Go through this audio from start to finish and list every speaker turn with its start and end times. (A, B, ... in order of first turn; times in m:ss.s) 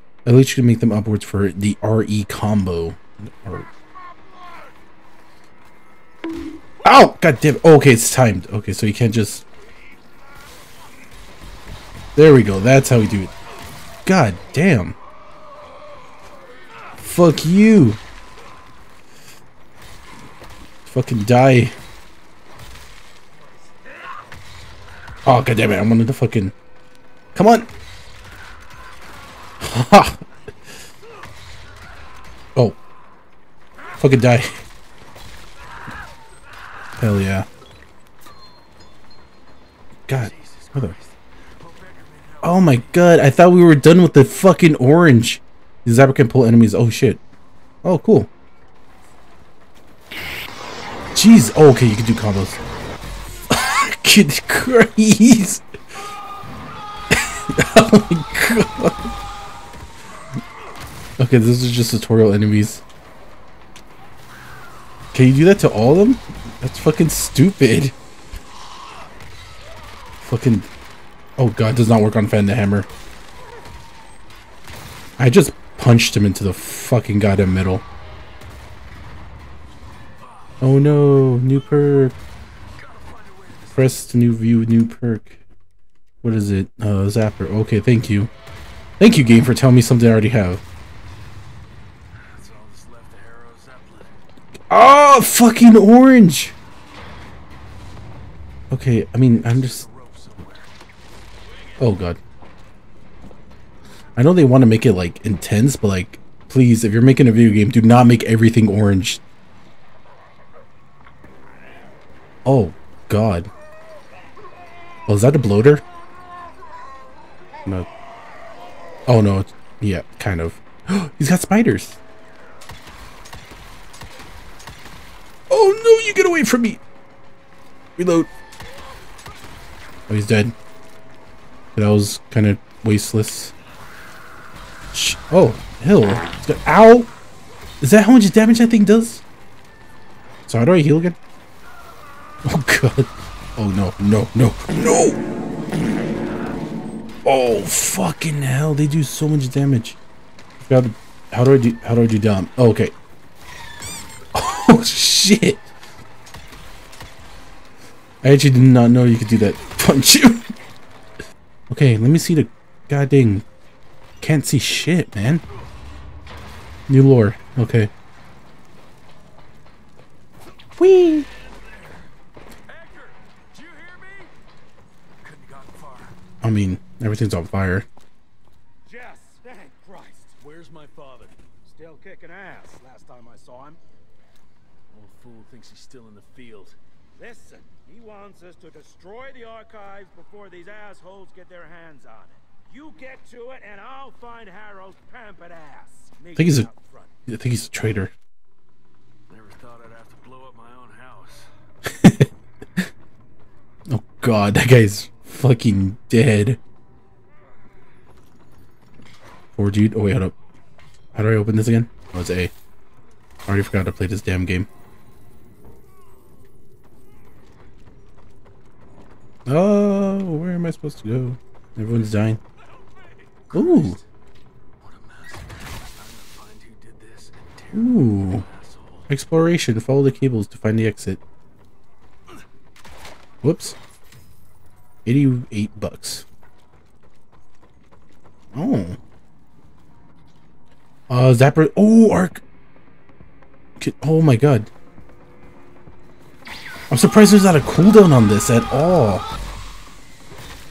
0:00.2-0:03.7 A
0:06.8-0:09.4 A
0:12.2-0:13.3 A
0:14.0-0:15.0 A
0:17.0-0:18.0 A
0:20.8-0:21.8 A
0:25.2-0:26.5 A
0:27.3-0:27.7 A
0:29.6-0:30.2 A
0:34.0-0:34.6 A
0:37.0-0:37.5 A
0:40.1-0:40.9 A
0:40.1-0:43.0 B
0:42.4-0:47.2 A
0:47.8-0:48.3 A
0:51.1-0:52.6 A
0:53.5-0:55.6 A
0:57.1-0:59.1 A
1:01.2-1:02.8 A
1:05.1-1:07.9 A
1:10.2-1:10.7 A
1:11.4-1:12.9 A
1:15.2-1:17.8 A
1:20.2-1:20.6 B
1:20.6-1:22.2 A
1:22.7-1:24.1 B
1:23.7-1:25.4 A
1:26.2-1:28.3 A
1:29.0-1:30.6 A
1:32.1-1:34.1 B
1:34.7-1:36.5 A
1:38.7-1:39.8 A
1:39.3-1:40.7 B
1:41.5-1:41.8 B
1:41.8-1:42.2 A
1:44.2-1:49.2 A
1:52.4-1:53.5 A
1:55.1-1:55.8 A
1:59.1-2:02.0 A
2:05.5-2:06.8 A
2:08.0-2:08.3 A
2:10.1-2:10.5 A
2:11.7-2:13.5 A
2:14.9-2:17.1 A
2:17.8-2:19.2 A
2:20.5-2:21.2 A
2:22.4-2:25.2 A
2:27.2-2:30.0 A
2:30.6-2:32.9 A
2:34.3-2:35.7 A
2:38.2-2:40.5 A
2:41.7-2:43.4 A
2:44.2-2:45.4 A
2:46.9-2:47.9 A
2:50.8-2:51.3 A
2:51.2-2:52.1 B
2:52.6-2:54.3 B
2:55.2-2:56.2 B
2:56.4-2:57.9 A
2:58.8-3:00.3 C
3:00.4-3:01.4 B
3:01.6-3:03.8 C
3:04.9-3:06.8 B
3:07.1-3:17.2 C
3:16.3-3:16.7 A
3:17.3-3:18.1 A
3:19.3-3:21.5 B
3:21.9-3:22.9 A
3:23.9-3:26.6 A
3:29.5-3:30.3 A
3:31.1-3:32.5 A
3:33.5-3:34.7 A
3:39.5-3:42.4 A
3:42.8-3:44.0 B
3:43.5-3:44.0 A
3:44.8-3:49.1 B
3:47.7-3:48.4 A
3:49.1-3:51.2 A
3:53.4-3:53.8 A
3:55.0-3:56.2 A
3:58.5-3:59.0 A
4:01.1-4:02.4 A
4:03.8-4:04.7 A
4:06.9-4:09.2 A